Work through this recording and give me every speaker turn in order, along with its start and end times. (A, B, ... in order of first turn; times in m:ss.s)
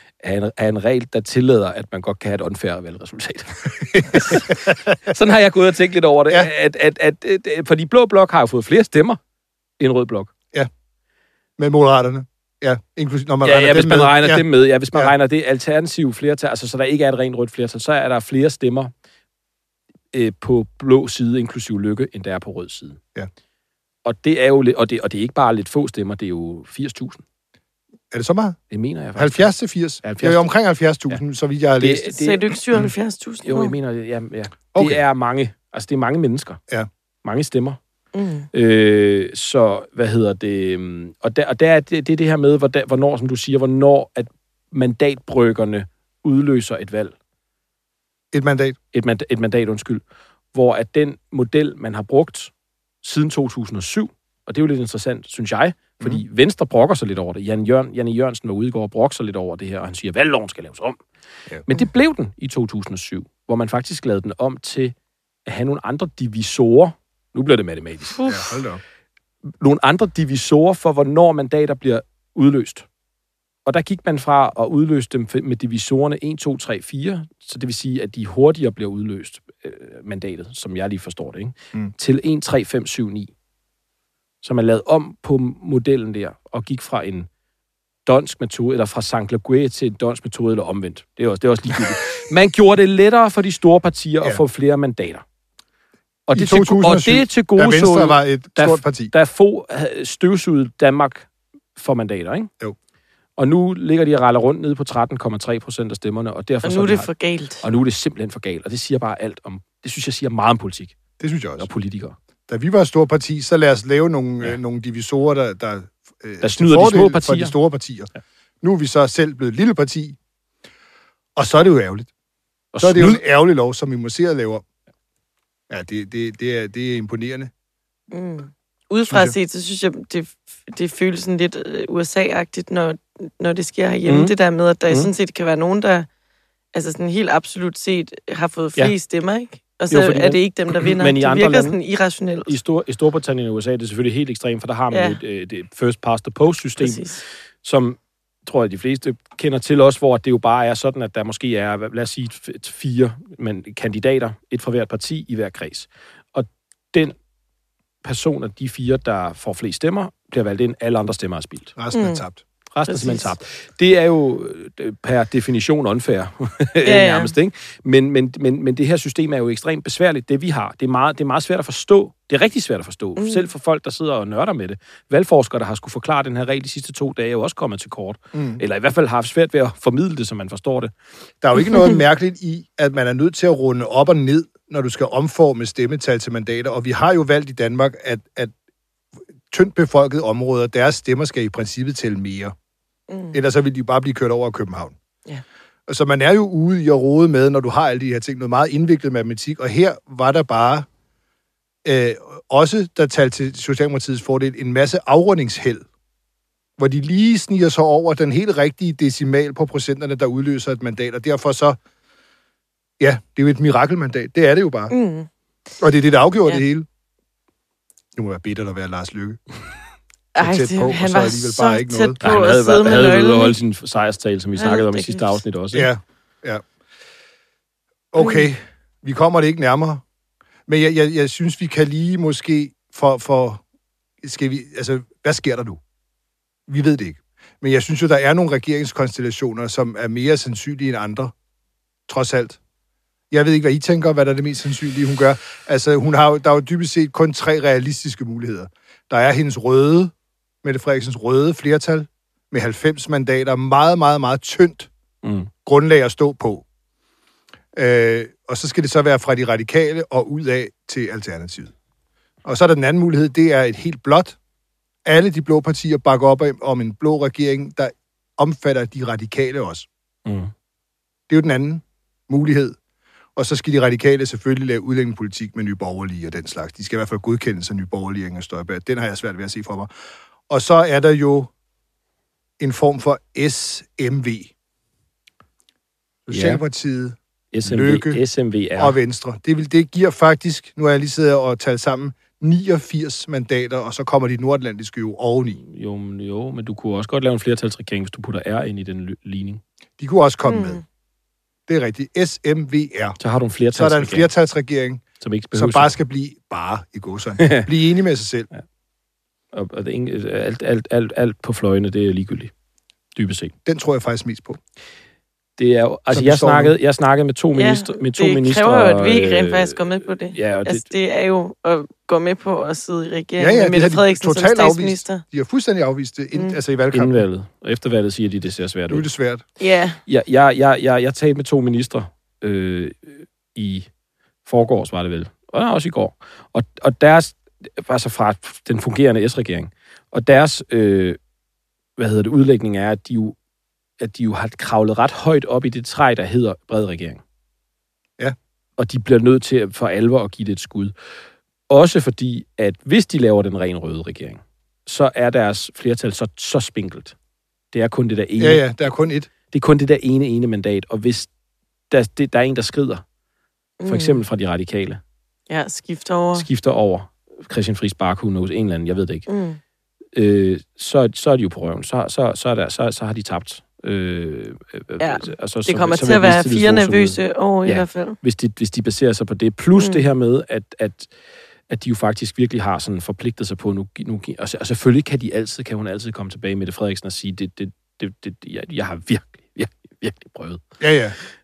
0:00.2-0:09.2 A
0:03.9-0:04.8 B
0:09.8-0:10.3 A
0:11.6-0:15.1 B
0:13.4-0:18.9 A
0:20.1-0:23.0 A
0:24.0-0:27.2 A
0:28.1-0:28.6 B
0:28.7-0:29.4 A
0:29.2-0:32.1 B
0:30.0-0:30.5 A
0:31.8-0:32.5 A
0:32.2-0:33.7 C
0:33.4-0:36.6 A
0:34.7-0:35.0 B
0:37.2-0:37.8 A
0:38.1-0:38.5 C
0:38.5-0:47.1 A
0:48.3-0:48.8 B
0:48.9-0:50.0 A
0:50.5-0:52.5 A
0:53.0-1:01.0 A
1:01.6-1:04.9 A
1:05.4-1:08.2 A
1:08.2-1:08.4 C
1:08.3-1:08.8 B
1:09.6-1:12.8 A
1:13.6-1:23.3 A
1:24.4-1:27.3 A
1:28.0-1:35.2 A
1:36.3-1:42.5 A
1:36.3-1:39.1 B
1:43.4-1:47.1 A
1:46.6-1:47.6 C
1:47.6-1:51.0 A
1:51.2-1:51.7 B
1:51.6-1:52.2 A
1:52.5-2:00.2 B
1:56.4-1:57.5 A
2:01.4-2:02.1 B
2:02.7-2:03.2 A
2:02.8-2:04.6 B
2:05.7-2:07.5 B
2:08.1-2:16.1 C
2:09.1-2:09.3 B
2:14.1-2:14.3 A
2:16.7-2:22.5 C
2:19.9-2:21.8 A
2:22.5-2:27.1 A
2:24.9-2:25.2 C
2:26.8-2:27.2 C
2:27.6-2:37.1 A
2:38.0-2:41.7 A
2:41.8-2:42.4 B
2:41.9-2:42.2 C
2:42.7-3:00.9 A
2:42.8-2:43.3 C
2:46.8-2:47.3 C
2:53.2-2:53.4 C
2:58.3-2:58.6 B
3:01.4-3:08.5 B
3:09.5-3:12.5 B
3:13.1-3:13.4 C
3:13.3-3:15.0 B
3:15.9-3:20.9 B
3:21.8-3:25.8 B
3:26.8-3:31.8 B
3:33.0-3:34.9 B
3:34.9-3:35.3 C
3:35.8-3:36.9 B
3:38.1-3:39.4 B
3:40.4-3:43.6 C
3:40.4-3:42.2 B
3:42.2-3:45.9 A
3:44.6-3:45.4 C
3:45.7-3:46.6 B
3:48.1-3:50.0 B
3:48.2-3:48.5 C
3:50.7-3:53.6 B
3:54.2-3:55.8 B
3:56.7-4:01.3 B
4:02.1-4:02.6 B
4:03.3-4:14.9 B
4:15.2-4:15.5 A
4:15.6-4:16.6 B
4:17.7-4:21.7 B
4:22.4-4:24.4 B
4:25.0-4:29.9 B
4:30.2-4:30.5 A
4:31.3-4:32.8 B
4:33.4-4:39.9 B
4:40.5-4:41.5 B
4:42.6-4:44.5 B
4:46.2-4:48.2 B
4:46.3-4:46.6 A
4:47.5-4:49.0 A
4:48.8-4:55.6 B
4:55.6-4:59.6 A
5:00.0-5:00.8 B
5:00.5-5:00.8 C
5:01.7-5:03.2 B
5:03.2-5:04.3 A
5:03.7-5:08.5 B
5:05.2-5:05.9 A
5:07.4-5:07.7 A
5:09.5-5:12.5 A
5:13.2-5:13.5 A
5:13.6-5:14.6 B
5:15.6-5:20.8 A
5:16.1-5:16.8 B
5:17.5-5:25.2 C
5:23.4-5:27.2 B
5:26.3-5:26.6 C
5:26.9-5:29.0 A
5:28.9-5:29.4 B
5:29.6-5:30.0 C
5:30.1-5:33.9 A
5:34.4-5:41.2 A
5:42.0-5:43.4 A
5:44.0-5:47.2 A
5:48.8-5:50.9 A
5:51.7-5:57.1 A
5:57.7-5:58.6 A
5:58.4-5:59.3 B
5:59.5-6:01.3 A
6:01.9-6:03.0 A
6:03.8-6:04.2 C
6:03.8-6:05.0 A
6:05.5-6:06.4 C
6:06.3-6:09.2 A
6:09.3-6:09.6 C
6:10.2-6:21.1 A
6:15.0-6:18.2 C
6:19.8-6:20.0 C
6:21.7-6:30.6 A
6:30.8-6:31.2 B